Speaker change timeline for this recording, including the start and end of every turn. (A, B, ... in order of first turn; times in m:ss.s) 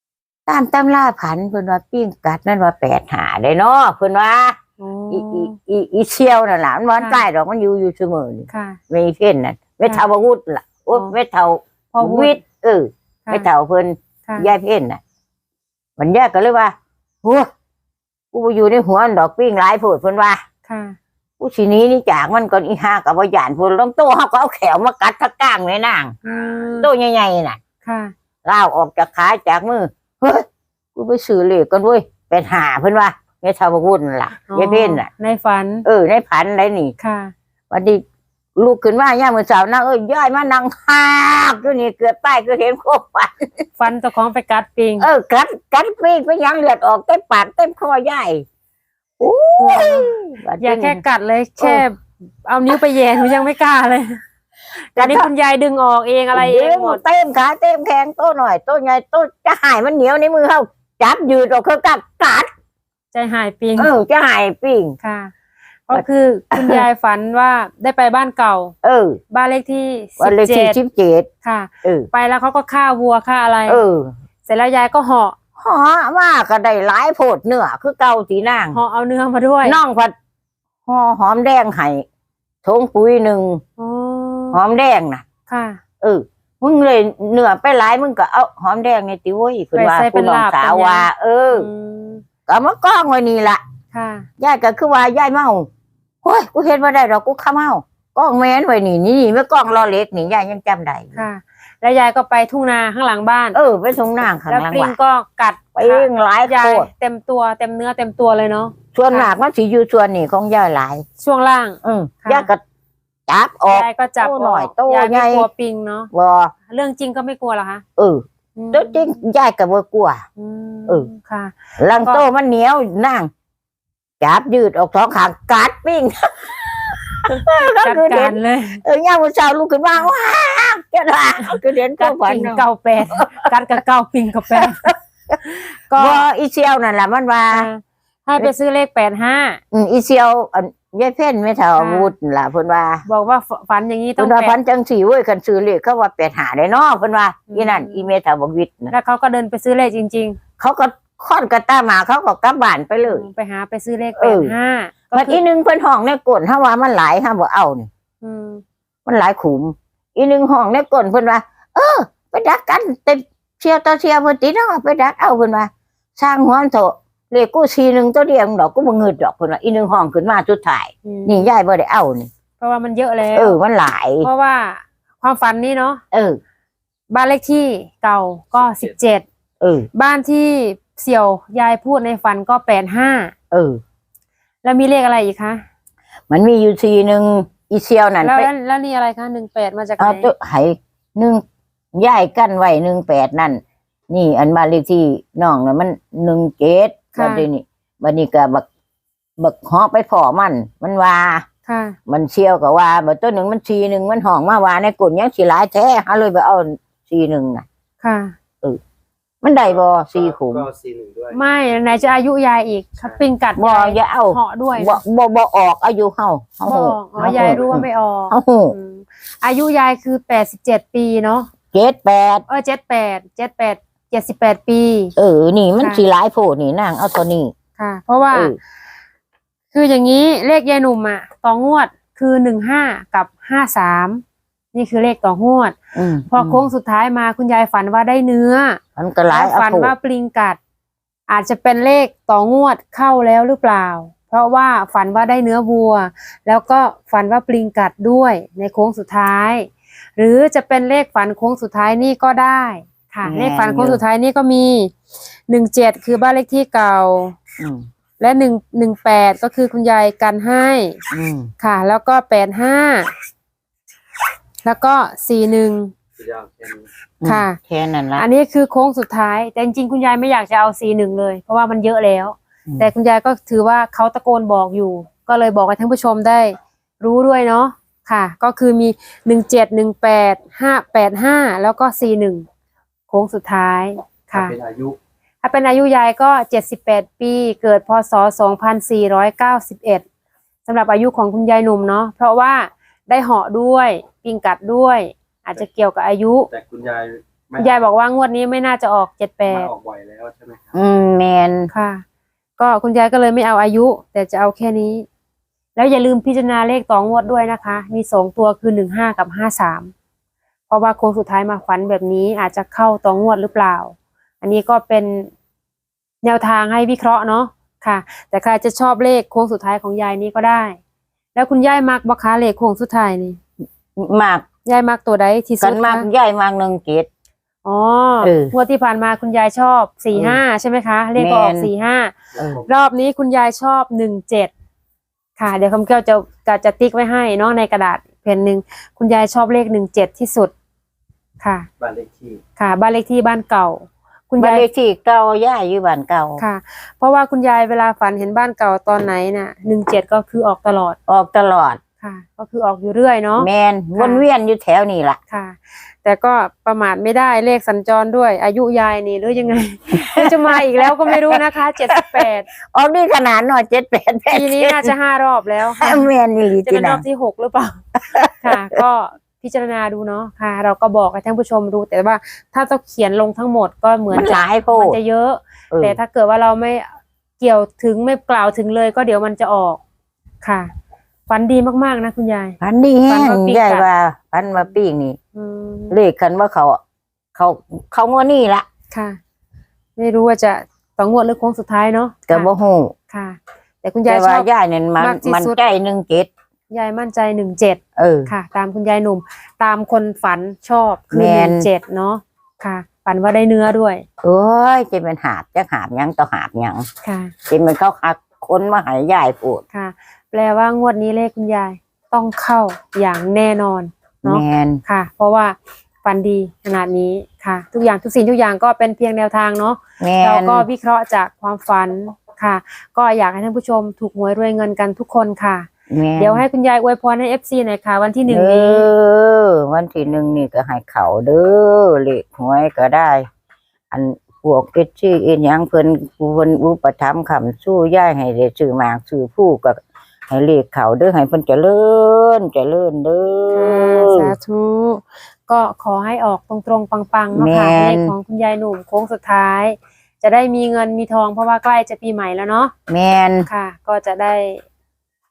0:00.4-0:04.6 A
0:04.8-0:05.5 B
0:05.1-0:15.0 A
0:08.5-0:08.8 B
0:11.9-0:12.4 B
0:16.0-0:17.5 A
0:18.3-0:20.4 A
0:20.6-0:21.0 B
0:21.4-0:26.1 A
0:26.2-0:26.9 B
0:26.8-0:27.6 A
0:27.8-0:28.1 B
0:28.4-0:35.1 A
0:34.5-0:35.8 B
0:35.8-0:36.9 A
0:37.0-0:37.3 B
0:37.7-0:38.0 A
0:38.6-0:43.6 A
0:43.8-0:45.1 B
0:45.0-0:48.4 A
0:49.2-0:51.0 A
0:49.6-0:54.2 B
0:54.9-0:57.0 B
0:55.0-0:55.3 A
0:56.3-1:02.5 A
1:03.1-1:03.9 B
1:03.8-1:05.0 A
1:05.0-1:05.3 B
1:05.9-1:08.7 B
1:05.9-1:06.8 A
1:08.8-1:09.2 A
1:09.3-1:10.8 B
1:10.2-1:11.3 A
1:11.4-1:13.8 B
1:11.8-1:12.1 A
1:13.7-1:14.1 A
1:14.4-1:15.4 B
1:15.6-1:18.8 A
1:18.7-1:19.8 B
1:19.6-1:20.1 A
1:20.8-1:22.0 A
1:22.6-1:23.6 A
1:23.8-1:24.6 B
1:24.5-1:25.2 A
1:25.5-1:25.8 B
1:26.0-1:31.7 A
1:29.7-1:32.2 B
1:32.5-1:33.6 A
1:33.9-1:34.3 B
1:34.4-1:35.7 A
1:36.2-1:41.2 A
1:41.2-1:43.6 B
1:43.5-1:44.9 A
1:44.4-1:49.3 B
1:45.8-1:46.9 A
1:48.9-1:51.0 A
1:51.2-1:52.5 B
1:51.8-1:52.6 A
1:53.3-1:55.5 A
1:53.7-1:56.1 B
1:56.1-1:56.5 A
1:56.6-1:57.8 B
1:58.0-2:00.2 A
1:58.6-1:59.2 B
2:00.4-2:02.2 B
2:01.8-2:03.3 A
2:04.2-2:13.6 A
2:07.6-2:08.8 B
2:11.4-2:16.2 B
2:14.6-2:14.9 A
2:15.9-2:17.7 A
2:17.5-2:19.6 B
2:19.7-2:23.0 A
2:21.8-2:22.1 B
2:23.0-2:24.6 B
2:24.2-2:28.9 A
2:27.5-2:28.1 B
2:28.9-2:30.4 B
2:30.6-2:33.2 A
2:33.0-2:35.4 B
2:34.2-2:34.5 A
2:35.1-2:37.9 A
2:38.2-2:38.6 B
2:39.0-2:52.3 A
2:51.0-2:51.5 B
2:52.6-2:53.6 B
2:53.3-2:54.3 A
2:54.2-2:56.0 B
2:56.1-2:56.4 A
2:57.1-2:59.2 B
2:59.6-2:59.9 A
2:59.9-3:03.3 B
3:03.5-3:03.8 A
3:04.6-3:05.6 B
3:06.3-3:08.5 A
3:08.2-3:10.3 B
3:10.0-3:11.4 A
3:11.9-3:18.6 A
3:17.1-3:17.4 B
3:19.4-3:21.4 A
3:21.6-3:22.0 B
3:22.1-3:27.6 A
3:28.0-3:28.3 B
3:29.4-3:30.7 A
3:30.4-3:31.4 C
3:31.3-3:35.0 B
3:33.6-3:38.7 A
3:36.6-3:41.5 B
3:41.7-3:42.4 A
3:42.5-3:45.1 B
3:45.2-3:47.5 A
3:45.8-3:46.0 B
3:47.8-3:48.5 B
3:48.3-3:48.6 A
3:49.7-3:54.2 B
3:54.7-3:55.8 B
3:55.9-3:56.7 A
3:56.3-3:58.8 B
3:59.0-3:59.9 A
3:59.3-4:00.6 B
4:01.3-4:14.9 B
4:13.2-4:14.0 A
4:15.5-4:17.4 B
4:17.6-4:17.8 A
4:18.2-4:21.0 B
4:21.1-4:21.5 A
4:21.6-4:23.1 B
4:24.6-4:25.9 B
4:26.2-4:26.8 C
4:27.2-4:28.3 A
4:27.2-4:27.6 B
4:28.1-4:42.4 B
4:43.1-4:44.6 B
4:44.4-4:45.0 C
4:45.4-4:50.0 B
4:50.7-4:56.5 B
4:56.5-4:57.7 C
4:57.6-4:59.7 B
4:59.5-5:00.7 C
5:00.7-5:01.7 A
5:01.7-5:02.0 B
5:02.6-5:05.0 B
5:05.8-5:09.9 B
5:10.7-5:15.3 B
5:16.2-5:20.8 B
5:21.3-5:23.4 B
5:24.0-5:24.4 A
5:24.6-5:26.1 B
5:25.6-5:27.1 A
5:27.6-5:34.5 B
5:28.2-5:28.5 A
5:30.1-5:30.4 A
5:31.2-5:31.7 A
5:32.4-5:32.6 A
5:35.4-5:40.5 B
5:41.4-5:41.7 B
5:41.8-5:42.4 C
5:42.6-5:44.6 B
5:44.4-5:46.4 A
5:46.4-5:51.0 B
5:51.1-5:51.8 A
5:52.0-5:54.2 B
5:53.4-5:55.2 A
5:55.3-6:02.5 B
5:59.9-6:01.4 A
6:02.7-6:04.9 A
6:04.3-6:07.8 B
6:05.7-6:07.0 A
6:08.0-6:08.5 A
6:08.4-6:19.8 B
6:14.1-6:15.0 A
6:15.7-6:16.0 A
6:20.4-6:20.7 B
6:21.3-6:23.8 B
6:22.6-6:25.2 A
6:25.3-6:26.0 B
6:25.9-6:26.8 A
6:27.3-6:28.6 A
6:28.9-6:29.2 B
6:30.0-6:32.5 B
6:32.3-6:32.9 A
6:33.1-6:34.5 B
6:34.0-6:36.3 A
6:35.0-6:35.6 B
6:36.7-6:44.0 B
6:38.0-6:38.3 A
6:41.1-6:41.7 A
6:44.2-6:46.9 A
6:47.0-6:47.3 B
6:47.5-6:49.6 A
6:49.7-7:08.9 B
6:54.2-6:54.8 A
7:00.0-7:00.6 A
7:05.9-7:06.4 A
7:08.3-7:13.2 A
7:13.9-7:24.3 A
7:23.5-7:32.7 B
7:27.3-7:28.1 A
7:32.9-7:33.5 A
7:33.5-7:34.6 B